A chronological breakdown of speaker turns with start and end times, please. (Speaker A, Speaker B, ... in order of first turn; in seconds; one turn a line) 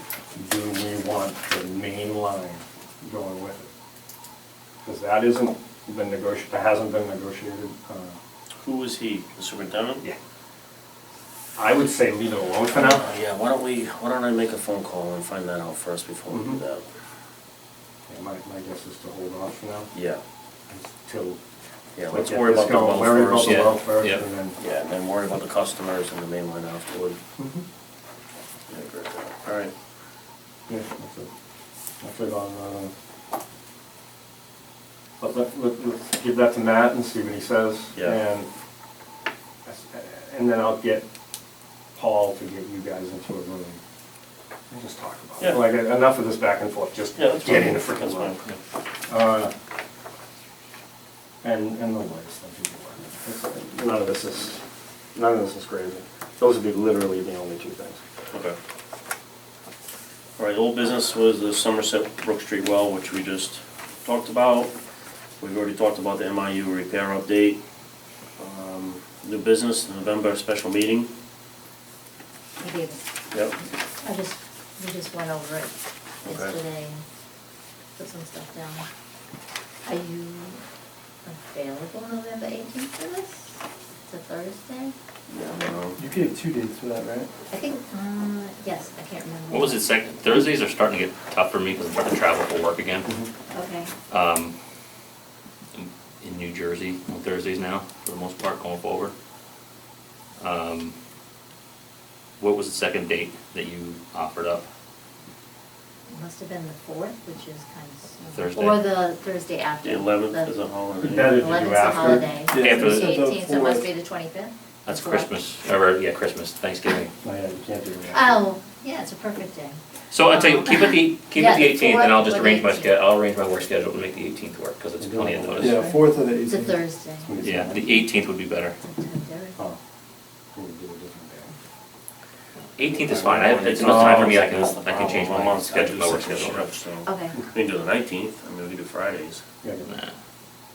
Speaker A: 0.3-3.7
Speaker A: 4.8-8.2
Speaker B: 8.6-10.0
Speaker A: 11.6-13.0
Speaker B: 12.7-16.9
Speaker A: 16.3-16.6
Speaker A: 18.1-19.9
Speaker B: 19.9-20.2
Speaker A: 20.7-21.4
Speaker B: 21.9-23.8
Speaker A: 22.1-24.6
Speaker C: 23.4-24.2
Speaker B: 24.6-27.2
Speaker A: 27.4-27.6
Speaker B: 28.7-29.7
Speaker A: 30.7-31.3
Speaker A: 32.0-32.9
Speaker A: 35.2-38.5
Speaker A: 39.7-41.0
Speaker A: 41.9-43.8
Speaker A: 44.7-48.3
Speaker B: 45.4-45.7
Speaker B: 47.2-48.5
Speaker A: 49.1-49.5
Speaker A: 51.4-54.6
Speaker A: 55.1-58.0
Speaker B: 58.3-58.6
Speaker B: 60.4-64.7
Speaker B: 65.4-67.6
Speaker B: 68.4-71.1
Speaker D: 72.6-73.0
Speaker B: 73.3-73.6
Speaker D: 74.0-77.0
Speaker B: 76.2-76.6
Speaker D: 78.0-78.8
Speaker D: 79.8-80.6
Speaker D: 81.2-84.9
Speaker B: 85.3-86.0
Speaker E: 86.0-87.3
Speaker D: 87.5-89.8
Speaker C: 89.5-93.1
Speaker D: 93.5-93.9
Speaker C: 94.1-94.5
Speaker C: 95.7-99.1
Speaker C: 100.4-101.0
Speaker C: 102.4-104.7
Speaker D: 106.1-110.5
Speaker C: 108.3-108.8
Speaker B: 109.8-111.5
Speaker A: 111.0-112.3
Speaker D: 111.3-115.3
Speaker E: 112.5-113.8
Speaker C: 112.5-113.2
Speaker C: 114.8-117.1
Speaker A: 117.2-118.4
Speaker D: 118.1-123.0
Speaker C: 120.1-125.8
Speaker A: 125.0-125.8
Speaker E: 125.6-126.8
Speaker D: 126.5-127.3
Speaker A: 127.2-127.9
Speaker C: 127.4-128.8
Speaker D: 128.8-129.6
Speaker A: 130.5-131.5
Speaker C: 132.8-136.7
Speaker B: 133.1-139.4
Speaker A: 133.9-134.2
Speaker D: 137.0-137.3
Speaker C: 139.8-140.2